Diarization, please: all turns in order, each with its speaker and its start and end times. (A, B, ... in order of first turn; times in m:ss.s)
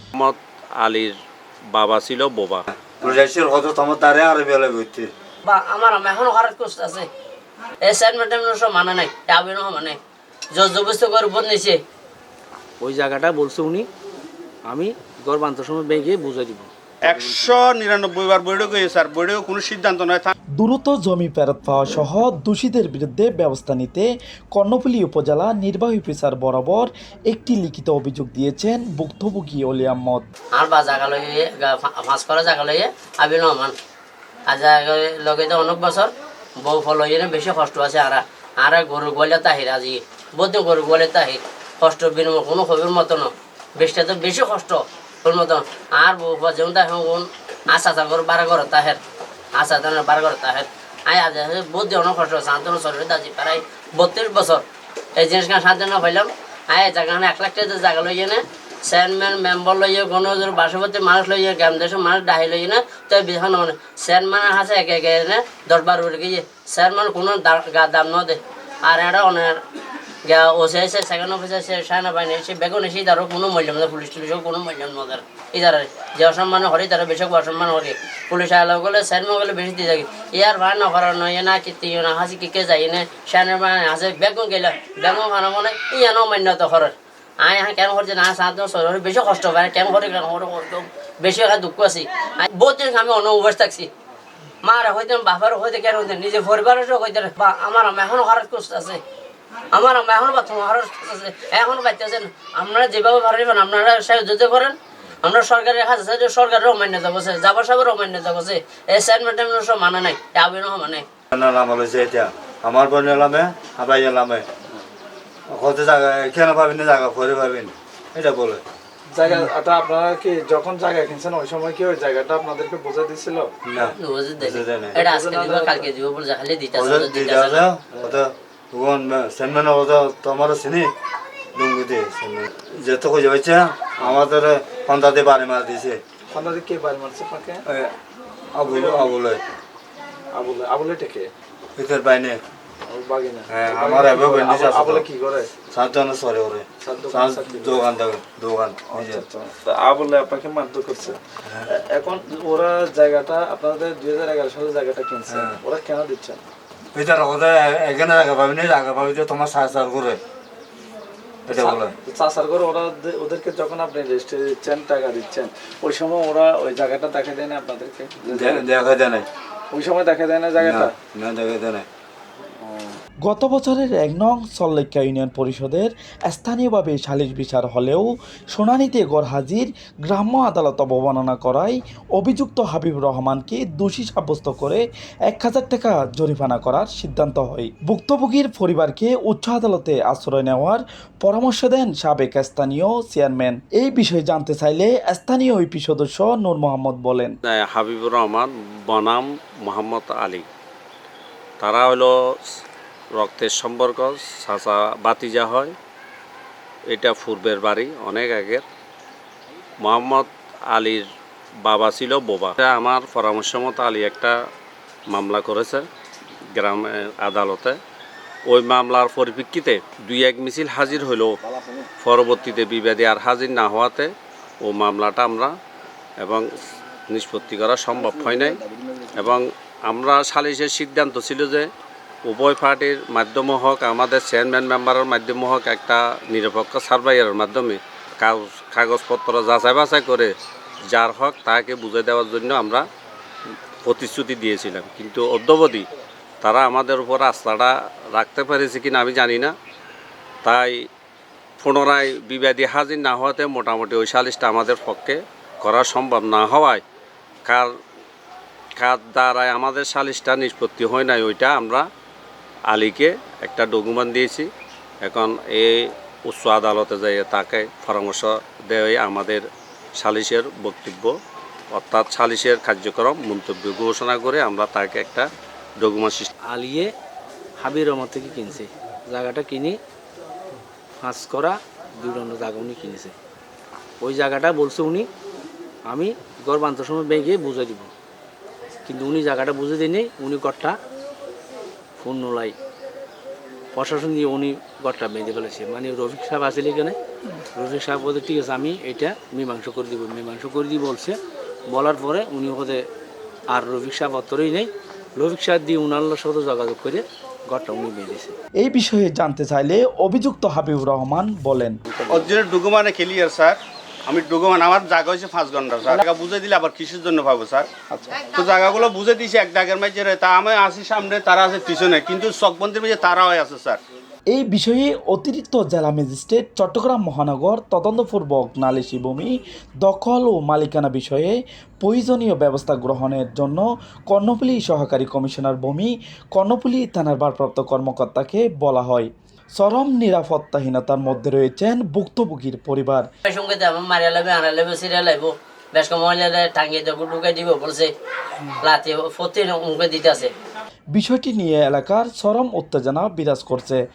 0:00.2-0:01.1 A
0:01.7-0:02.6 A
0:02.8-0:05.1 B
0:05.4-0:07.1 C
0:07.8-0:10.0 C
0:10.5-0:11.8 C
0:12.8-0:13.9 D
0:14.7-0:16.7 D
0:17.0-0:20.3 E
0:20.6-0:30.3 F
0:30.5-0:33.7 C
0:34.5-0:36.1 C
0:36.6-0:49.0 C
0:49.6-0:54.6 C
0:55.2-1:09.6 C
1:10.3-1:33.9 C
1:34.6-1:39.0 C
1:39.7-1:51.0 C
1:51.3-1:54.4 B
1:55.5-1:58.6 B
1:59.1-2:03.5 G
2:03.6-2:05.0 B
2:04.0-2:07.7 C
2:04.9-2:05.9 G
2:06.7-2:10.9 B
2:11.5-2:16.0 B
2:16.3-2:17.6 G
2:18.6-2:19.4 B
2:18.6-2:19.1 G
2:20.3-2:21.3 G
2:21.8-2:22.4 B
2:22.9-2:25.5 G
2:23.5-2:25.0 B
2:25.7-2:29.2 B
2:26.8-2:27.9 G
2:28.9-2:36.4 G
2:35.3-2:35.6 B
2:36.9-2:40.2 B
2:41.5-2:41.9 B
2:41.5-2:48.6 G
2:48.3-2:49.3 B
2:49.7-2:50.9 G
2:50.6-2:51.8 B
2:53.2-3:17.3 F
3:17.5-3:20.4 A
3:21.6-3:22.1 A
3:23.2-3:25.7 A
3:26.9-3:28.6 A
3:29.8-3:31.0 A
3:31.6-3:34.3 A
3:35.1-3:35.8 A
3:36.5-3:37.8 A
3:38.5-3:41.3 A
3:42.0-3:44.1 A
3:44.6-3:45.5 A
3:46.2-3:46.5 A
3:47.1-3:48.6 A
3:49.2-3:51.7 A
3:52.2-4:00.3 A
4:00.9-4:02.8 A
4:03.8-4:05.8 A
4:06.4-4:09.5 A
4:10.4-4:10.7 A
4:11.6-4:16.8 A
4:18.8-4:21.9 A
4:22.7-4:24.5 A
4:25.0-4:29.4 A
4:30.0-4:31.1 A
4:31.7-4:36.3 A
4:36.4-4:36.9 D
4:37.6-4:39.8 D
4:41.0-4:43.1 D
4:44.0-4:45.1 D
4:45.9-4:47.9 D
4:48.8-4:50.8 D
4:52.0-4:52.5 D
4:53.7-5:01.2 D
5:01.7-5:02.8 D
5:03.5-5:08.4 D
5:08.6-5:11.8 F
5:12.1-5:17.7 E
5:18.3-5:23.8 E
5:24.3-5:43.1 F
5:43.3-5:47.9 C
5:48.6-5:50.3 C
5:50.9-5:53.8 F